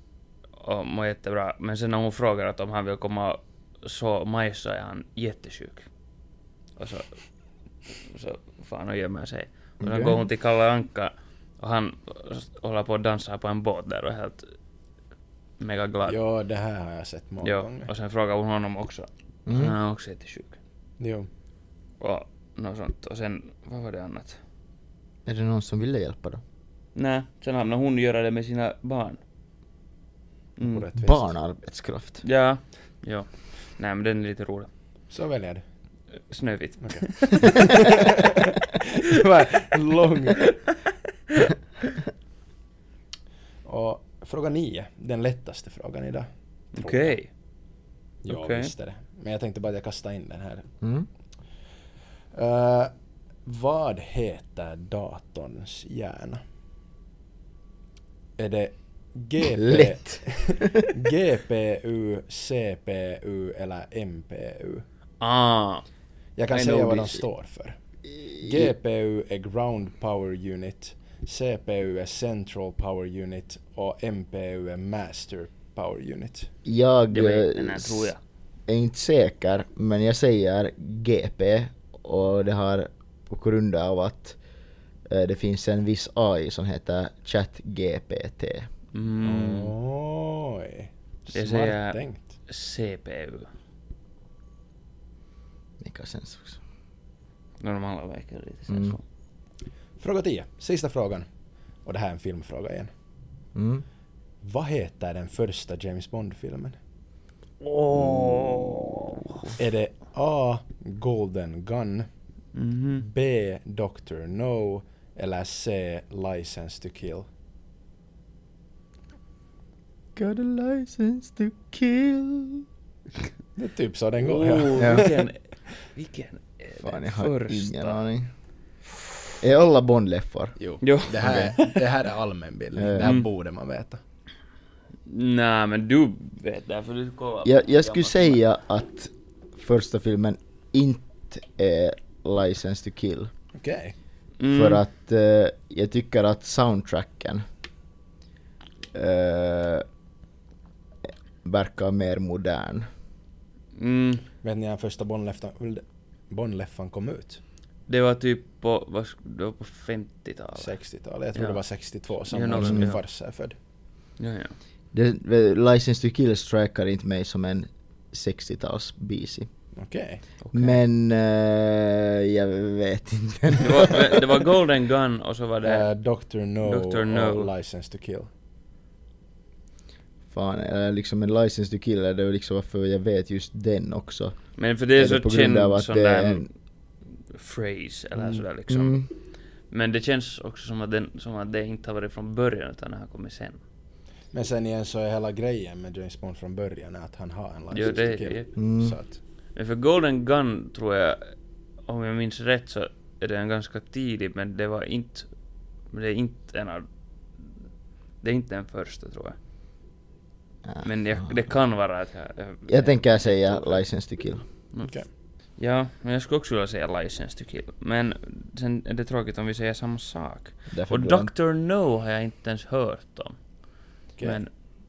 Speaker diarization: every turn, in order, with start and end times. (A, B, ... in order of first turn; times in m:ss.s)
0:00.6-0:05.9 A
0:06.8-0:07.2 A
0:08.0-0:14.5 A
0:09.8-0:10.2 B
0:15.6-0:16.2 A
0:16.0-0:17.9 C
0:17.4-0:20.6 A
0:19.4-0:19.7 B
0:21.0-0:21.3 C
0:22.0-0:24.4 A
0:25.2-0:26.4 B
0:26.9-0:29.2 A
0:30.6-0:30.9 A
0:30.6-0:31.3 C
0:31.0-0:32.2 B
0:32.2-0:34.7 A
0:35.1-0:35.6 C
0:36.3-0:37.7 A
0:36.8-0:40.6 C
0:43.6-0:47.2 C
0:46.8-0:47.3 A
0:48.2-0:50.7 C
0:48.3-0:48.7 A
0:50.8-0:51.1 B
0:52.3-0:52.9 C
0:53.4-0:56.4 C
0:58.4-1:04.8 C
0:59.6-1:00.9 B
1:05.2-1:05.9 A
1:06.4-1:07.8 C
1:06.5-1:07.2 A
1:08.2-1:08.7 B
1:08.3-1:16.5 C
1:16.6-1:18.1 B
1:17.1-1:18.2 A
1:18.7-1:24.4 B
1:25.1-1:28.7 B
1:28.9-1:29.7 A
1:29.2-1:32.2 C
1:31.3-1:33.5 A
1:35.8-1:36.6 B
1:37.6-1:39.0 A
1:38.7-1:39.0 B
1:40.0-1:41.2 C
1:41.8-1:42.9 C
1:43.5-1:43.8 B
1:44.4-1:46.8 C
1:47.6-1:49.5 A
1:49.6-1:52.1 C
1:52.5-1:53.0 A
1:53.0-1:57.3 C
2:00.1-2:02.6 B
2:03.6-2:05.2 C
2:04.2-2:08.0 A
2:04.8-2:05.1 B
2:06.8-2:08.3 B
2:09.4-2:10.6 B
2:10.6-2:14.0 C
2:10.8-2:11.8 A
2:11.2-2:11.5 B
2:12.8-2:13.2 B
2:13.0-2:13.2 A
2:15.1-2:18.4 A
2:17.4-2:23.3 B
2:23.5-2:23.9 C
2:24.4-2:24.8 A
2:24.5-2:27.4 B
2:28.9-2:29.8 B
2:31.4-2:32.9 B
2:33.7-2:34.2 A
2:34.4-2:37.4 C
2:37.9-2:40.8 A
2:40.6-2:43.5 C
2:41.4-2:41.6 A
2:42.3-2:43.0 A
2:42.6-2:42.9 B
2:44.2-2:44.5 A
2:44.9-2:49.5 B
2:49.7-2:50.2 C
2:50.4-2:50.8 A
2:50.5-2:54.2 B
2:53.6-2:55.8 A
2:55.6-2:58.3 C
2:56.6-2:57.5 A
3:00.3-3:06.5 B
3:04.6-3:06.5 A
3:07.3-3:09.1 A
3:08.7-3:09.1 B
3:09.7-3:13.6 A
3:14.3-3:19.2 C
3:17.7-3:18.5 A
3:18.6-3:19.0 B
3:19.5-3:21.3 A
3:21.9-3:25.3 A
3:25.9-3:26.9 A
3:28.2-3:29.4 A
3:30.6-3:31.4 B
3:30.8-3:33.8 A
3:32.7-3:34.4 B
3:35.6-3:43.4 A
3:40.7-3:41.3 B
3:44.2-3:44.5 A